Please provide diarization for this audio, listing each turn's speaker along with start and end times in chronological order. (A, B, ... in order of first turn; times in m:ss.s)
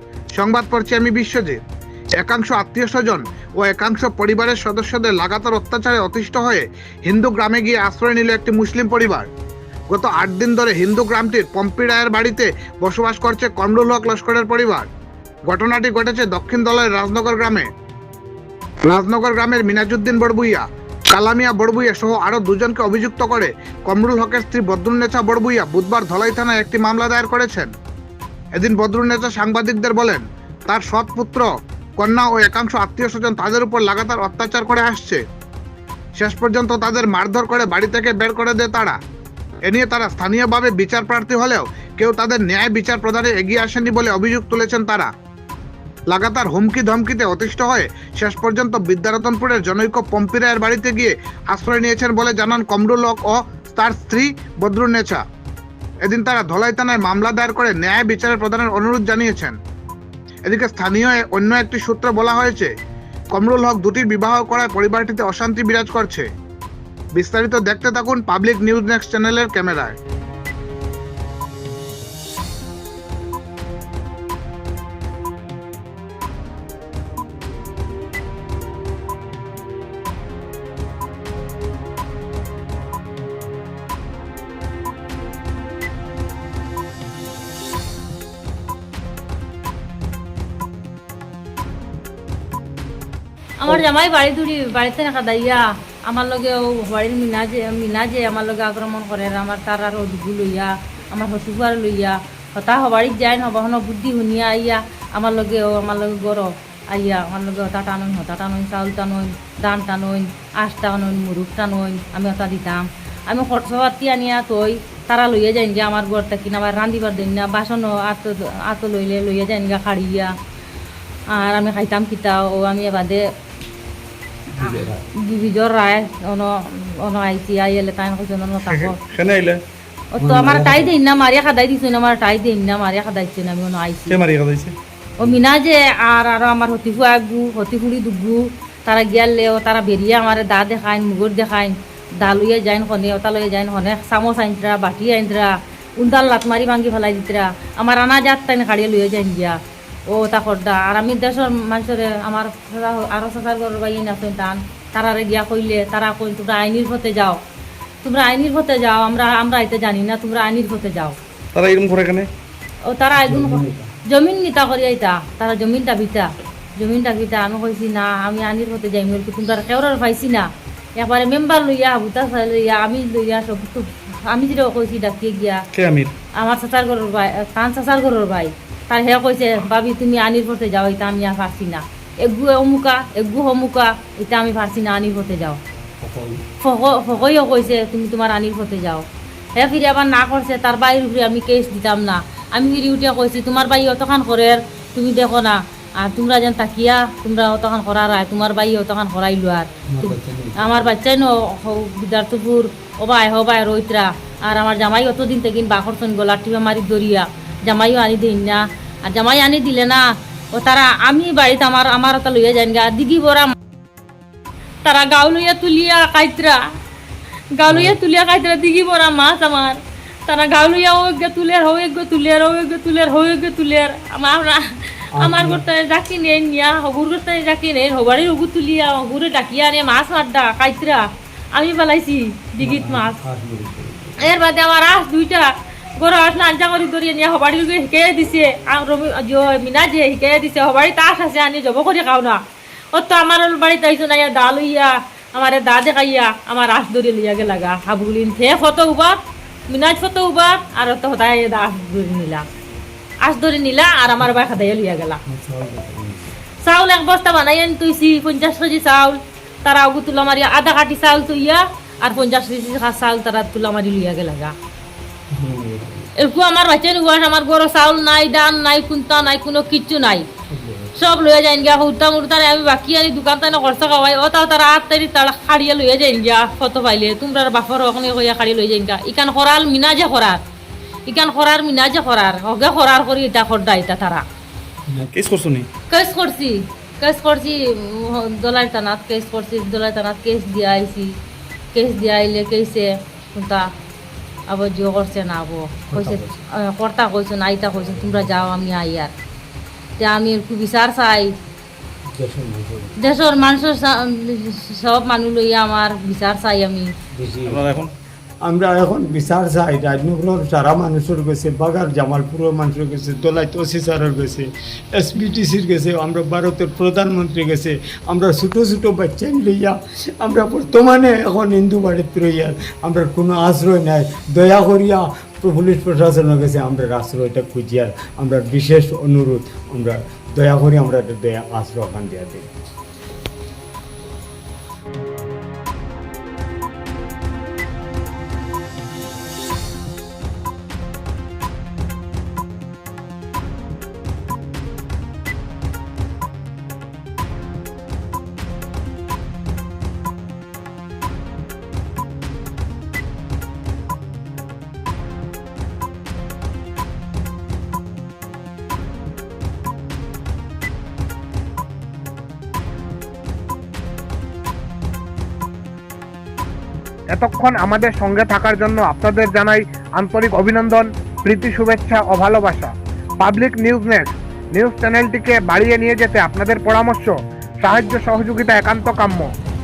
0:00.4-0:01.6 A
0:02.2-0:09.3 A
0:09.9-0:14.9 A
0:15.5-0:17.7 A
0:18.8-0:27.7 A
0:28.6-0:35.2 A
0:36.2-0:39.0 A
0:39.6-0:45.1 A
0:46.1-0:55.2 A
0:56.0-0:59.6 A
1:00.5-1:02.7 A
1:03.3-1:06.3 A
1:07.2-1:10.0 A
1:33.6-2:00.3 B
2:01.3-2:03.2 B
2:04.6-2:05.0 C
2:04.6-2:09.0 B
2:08.7-2:09.6 D
2:10.2-2:14.2 B
2:10.2-2:11.0 C
2:14.1-2:14.8 D
2:15.2-2:29.6 B
2:30.1-2:37.4 B
2:38.0-2:41.2 B
2:41.5-2:42.3 D
2:42.9-2:55.6 B
2:43.2-2:43.9 C
2:55.7-2:56.1 D
2:56.4-3:05.6 B
3:06.0-3:06.4 C
3:06.6-3:09.0 B
3:09.6-3:30.0 B
3:19.9-3:20.9 C
3:30.5-3:33.5 B
3:34.8-3:36.6 B
3:37.6-3:53.2 B
3:37.7-3:38.0 C
3:45.1-3:45.7 C
3:52.6-3:54.4 C
3:54.2-4:02.4 B
4:02.9-4:12.4 B
4:13.2-4:15.2 B
4:15.3-4:16.4 C
4:16.6-4:24.5 B
4:25.3-4:26.1 C
4:26.2-4:30.2 B
4:30.5-4:31.0 C
4:31.0-4:40.4 B
4:41.1-4:44.2 B
4:45.1-4:45.7 D
4:45.9-4:51.1 B
4:51.7-4:53.6 B
4:54.5-4:59.1 B
4:55.9-4:56.4 C
5:00.0-5:01.3 B
5:02.1-5:03.0 C
5:03.0-5:06.9 B
5:07.2-5:07.8 C
5:07.4-5:07.9 D
5:08.4-5:32.5 C
6:07.1-6:19.3 A